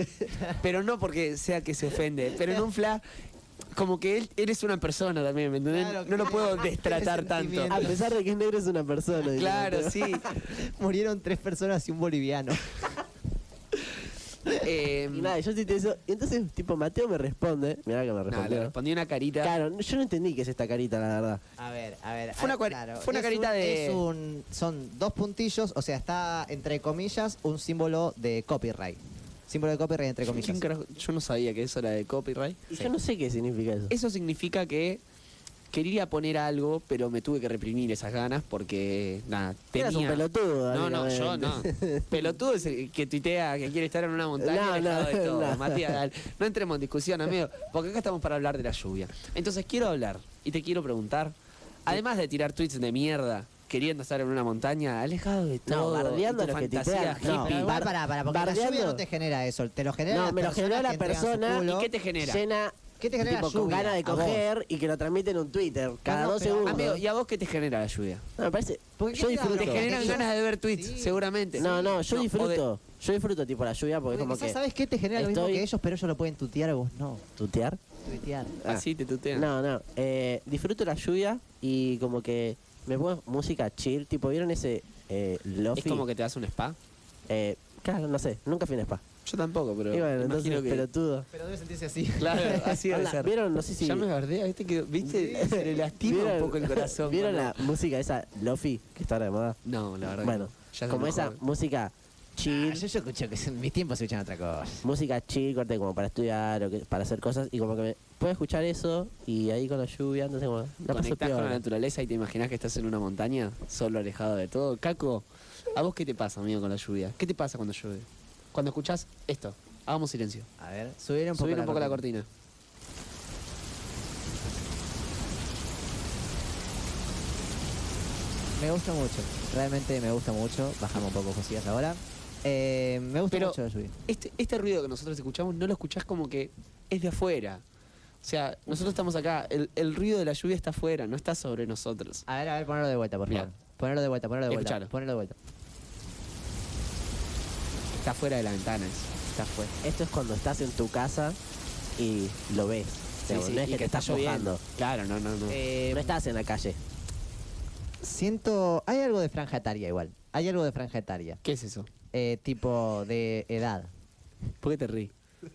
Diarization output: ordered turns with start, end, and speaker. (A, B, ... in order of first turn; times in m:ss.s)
0:00.6-0:03.0 A
0:03.7-0:07.8 A
0:05.7-0:08.0 B
0:07.7-0:10.1 C
0:09.2-0:10.5 A
0:10.4-0:12.9 B
0:14.6-0:15.4 A
0:15.1-0:18.7 C
0:18.3-0:19.6 A
0:19.4-0:21.4 C
0:21.6-0:30.7 B
0:22.4-0:24.0 A
0:30.3-0:32.6 A
0:32.7-0:33.9 C
0:33.9-0:35.0 A
0:35.7-0:51.4 A
0:39.7-0:42.1 C
0:44.4-0:46.0 C
0:51.9-0:57.8 A
0:55.7-0:59.0 C
0:57.2-1:01.9 B
1:00.1-1:01.7 C
1:01.6-1:02.4 A
1:02.2-1:06.9 C
1:03.0-1:04.4 B
1:06.1-1:07.0 B
1:06.6-1:08.2 A
1:08.4-1:10.2 C
1:09.0-1:12.0 B
1:09.6-1:12.6 A
1:11.6-1:14.6 C
1:14.1-1:17.2 B
1:15.2-1:15.6 C
1:17.4-1:17.8 C
1:18.0-1:18.6 B
1:18.6-1:19.5 A
1:19.3-1:26.0 C
1:25.8-1:26.8 A
1:27.3-1:29.0 C
1:29.2-1:30.9 A
1:29.9-1:31.3 C
1:31.3-1:32.8 B
1:32.2-1:37.8 A
1:32.9-1:34.1 C
1:35.0-1:35.6 B
1:35.4-1:39.6 C
1:39.6-1:41.4 A
1:40.2-1:42.8 C
1:42.5-1:44.9 B
1:44.8-1:51.6 C
1:50.9-2:00.5 A
2:00.6-2:02.0 B
2:01.4-2:02.3 A
2:08.6-2:13.9 B
2:13.3-2:17.6 A
2:18.2-2:22.3 A
2:22.3-2:25.4 B
2:24.5-2:24.9 A
2:27.9-2:29.7 A
2:29.8-2:31.4 C
2:32.0-2:34.6 C
2:33.3-2:35.6 A
2:35.5-2:36.2 B
2:35.9-2:36.8 C
2:38.0-2:41.4 B
2:41.4-2:41.9 A
2:42.1-2:43.9 B
2:44.6-2:45.1 A